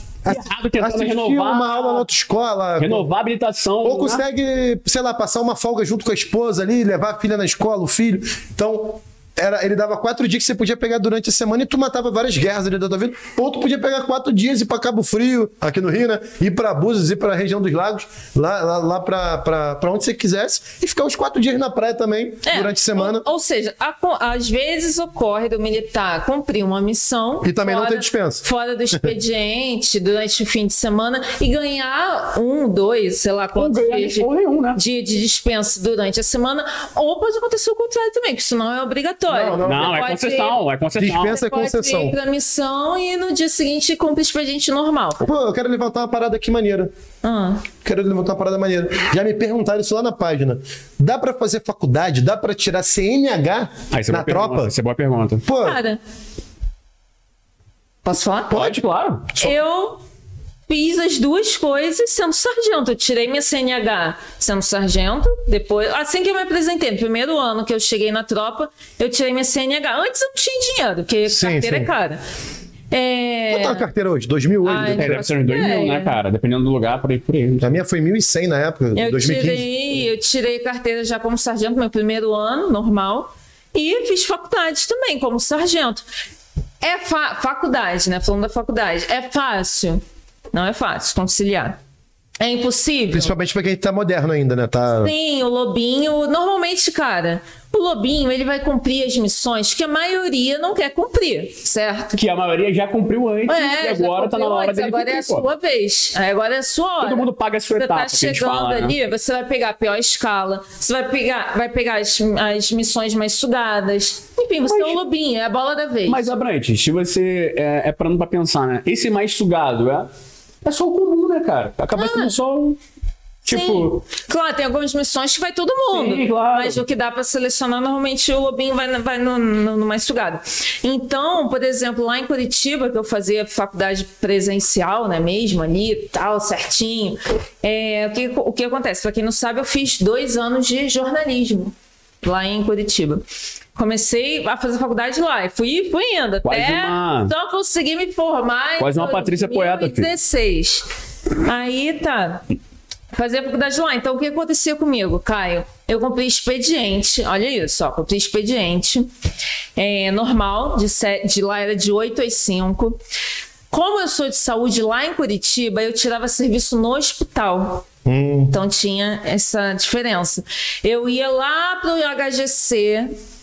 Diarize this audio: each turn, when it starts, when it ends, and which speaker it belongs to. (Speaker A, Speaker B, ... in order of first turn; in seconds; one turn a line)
Speaker A: 0.3-2.1
Speaker B: 0.3-3.1
Speaker A: 2.8-4.2
Speaker B: 3.8-23.2
Speaker C: 22.5-40.6
Speaker B: 27.4-29.1
Speaker A: 33.5-34.8
Speaker B: 39.3-40.0
Speaker A: 39.6-41.4
Speaker B: 41.0-42.1
Speaker C: 41.1-45.2
Speaker B: 45.2-46.9
Speaker C: 47.2-47.6
Speaker B: 47.8-54.7
Speaker A: 53.9-55.5
Speaker B: 55.5-55.8
Speaker C: 55.6-56.0
Speaker C: 58.0-58.7
Speaker A: 58.5-59.3
Speaker B: 58.5-59.6
Speaker C: 59.4-60.0
Speaker C: 60.7-72.2
Speaker B: 71.3-71.9
Speaker C: 72.9-73.9
Speaker B: 73.5-75.2
Speaker C: 74.7-76.2
Speaker A: 74.8-77.8
Speaker B: 77.6-79.7
Speaker C: 79.0-86.0
Speaker C: 86.8-90.0
Speaker C: 90.5-91.8
Speaker C: 92.4-93.3
Speaker B: 93.1-95.1
Speaker C: 95.0-102.2
Speaker A: 102.1-105.5
Speaker C: 103.5-116.3
Speaker A: 107.0-109.0
Speaker A: 114.6-115.0
Speaker A: 116.1-120.1
Speaker A: 120.6-122.8
Speaker C: 121.9-122.3
Speaker A: 123.5-124.0
Speaker C: 123.5-143.2
Speaker A: 125.9-126.8
Speaker C: 143.8-150.9
Speaker A: 146.4-147.3
Speaker A: 148.8-150.1
Speaker C: 151.4-152.4
Speaker C: 153.1-159.1
Speaker C: 159.8-163.0
Speaker C: 163.7-167.9
Speaker B: 168.1-168.6
Speaker C: 168.5-173.1